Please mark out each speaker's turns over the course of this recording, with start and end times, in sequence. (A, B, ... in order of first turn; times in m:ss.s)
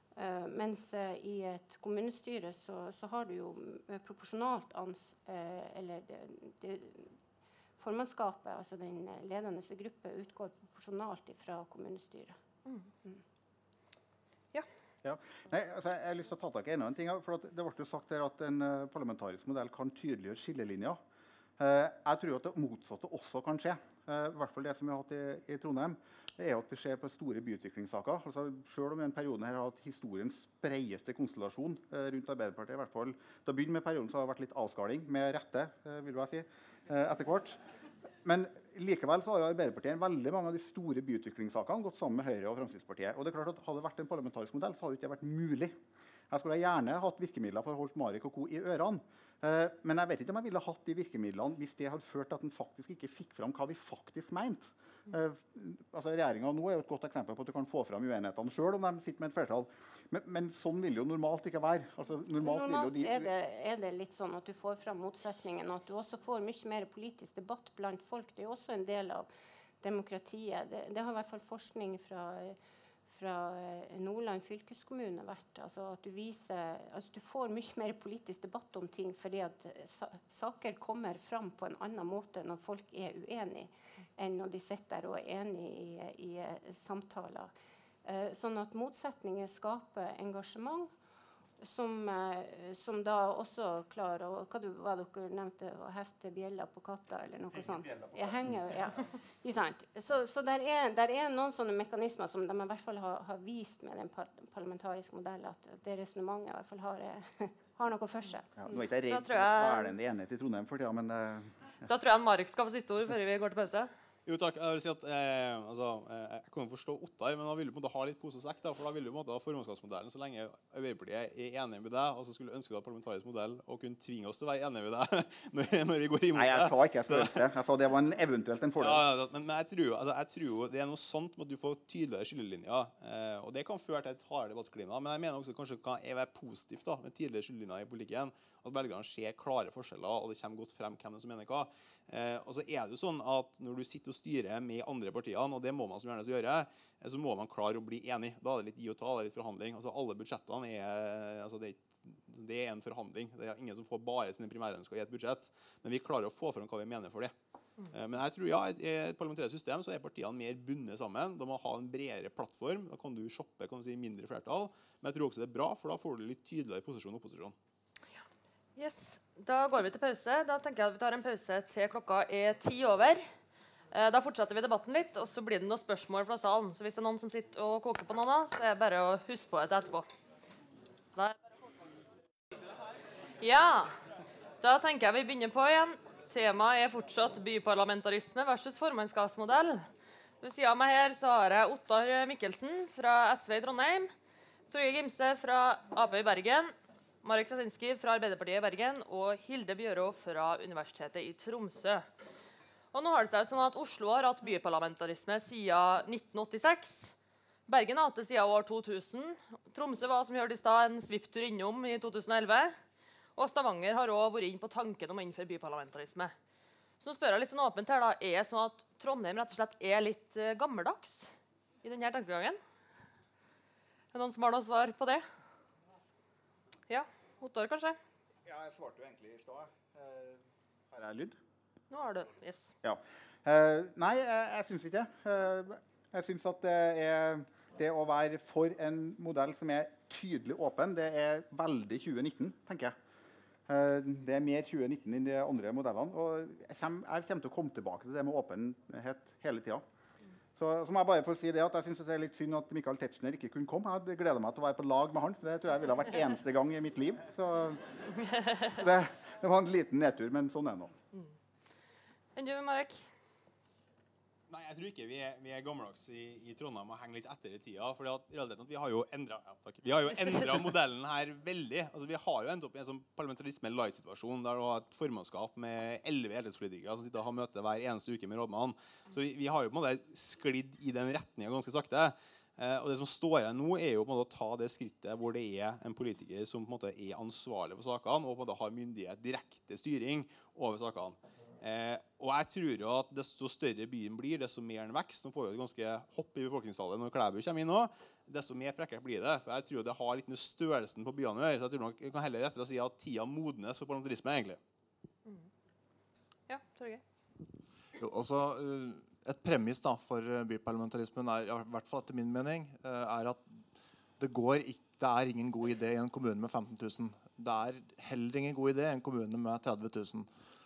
0:00.1-0:07.1 A
0:07.8-0:12.4 A
0:15.0-0:21.0 B
0:21.6-0:37.6 B
0:38.2-0:45.8 B
0:46.3-1:03.3 B
1:02.4-1:09.3 A
1:09.8-1:12.6 A
1:13.1-1:27.5 A
1:28.0-1:30.9 A
1:31.6-1:48.6 A
1:48.6-1:51.5 B
1:49.1-1:49.9 C
1:51.8-1:53.9 C
1:54.2-2:07.4 D
2:06.4-2:09.0 B
2:08.8-2:37.3 D
2:37.9-2:47.5 D
2:48.8-2:53.3 C
2:53.9-3:00.1 C
3:03.4-3:03.9 C
3:04.6-3:09.9 C
3:10.4-3:14.1 C
3:14.7-3:22.1 C
3:22.9-3:27.1 C
3:27.7-3:32.8 C
3:33.4-3:36.3 C
3:37.0-3:42.6 C
3:44.1-3:45.2 C
3:46.9-3:48.0 C
3:48.4-3:50.4 B
3:50.9-3:51.4 B
3:51.9-3:52.7 C
3:52.8-4:02.9 B
4:03.7-4:09.8 B
4:10.6-4:18.0 B
4:18.6-4:20.9 B
4:22.3-4:23.0 C
4:24.5-5:04.6 D
5:06.5-5:07.0 C
5:08.0-5:13.6 E
5:14.2-5:20.3 E